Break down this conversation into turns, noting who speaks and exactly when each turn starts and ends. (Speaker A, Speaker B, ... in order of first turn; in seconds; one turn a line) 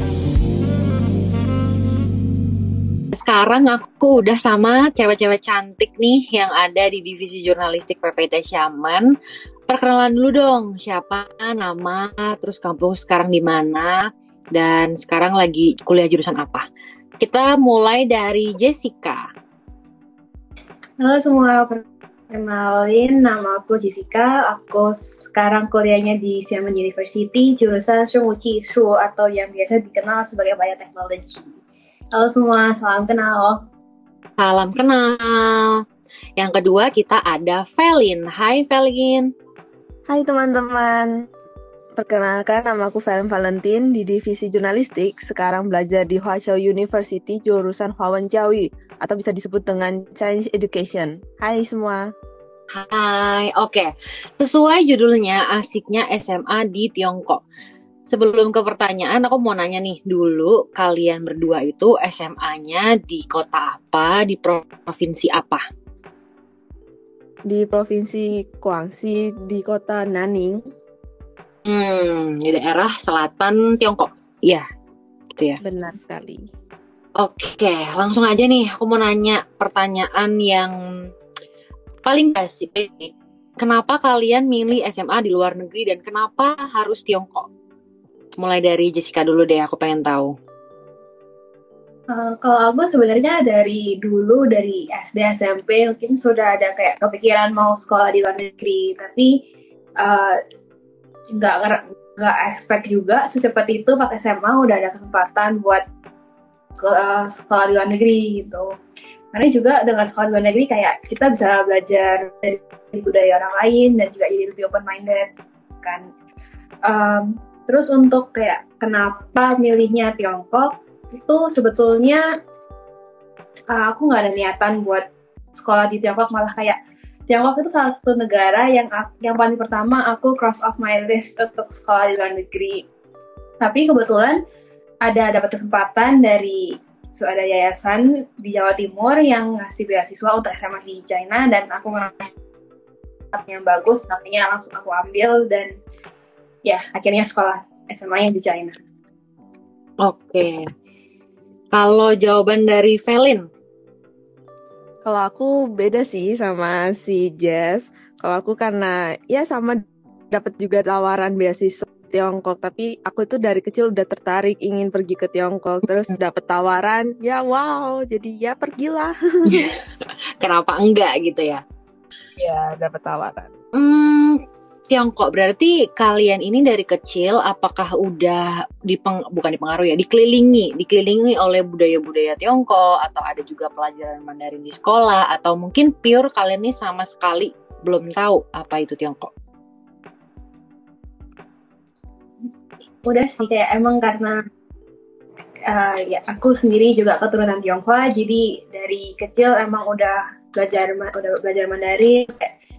Speaker A: 3.1-9.1
Speaker A: 9.7-14.0
Speaker A: 14.5-16.6
Speaker A: 17.2-19.2
Speaker B: 21.0-31.5
Speaker B: 32.1-33.6
Speaker A: 34.4-35.8
Speaker A: 36.4-39.3
Speaker C: 40.1-41.1
Speaker C: 42.0-52.0
Speaker A: 52.7-57.4
Speaker A: 58.1-65.6
Speaker C: 67.5-70.6
Speaker A: 71.7-74.6
Speaker C: 75.6-76.4
Speaker A: 77.2-80.7
Speaker A: 82.0-87.5
Speaker A: 88.4-90.3
Speaker B: 92.1-99.3
Speaker B: 100.0-100.4
Speaker B: 101.3-105.8
Speaker B: 106.8-108.7
Speaker B: 109.3-115.3
Speaker B: 116.8-122.2
Speaker B: 123.7-125.0
Speaker B: 125.5-126.8
Speaker B: 127.3-132.8
Speaker B: 133.6-134.4
Speaker B: 135.0-142.3
Speaker B: 143.3-145.7
Speaker B: 146.7-148.8
Speaker A: 150.0-150.6
Speaker A: 151.7-153.4
Speaker C: 155.0-169.7
Speaker A: 169.5-169.7
Speaker A: 170.4-171.6
Speaker C: 172.4-173.5
Speaker A: 173.7-174.4
Speaker A: 174.9-189.3
Speaker B: 193.0-194.4
Speaker B: 195.7-202.5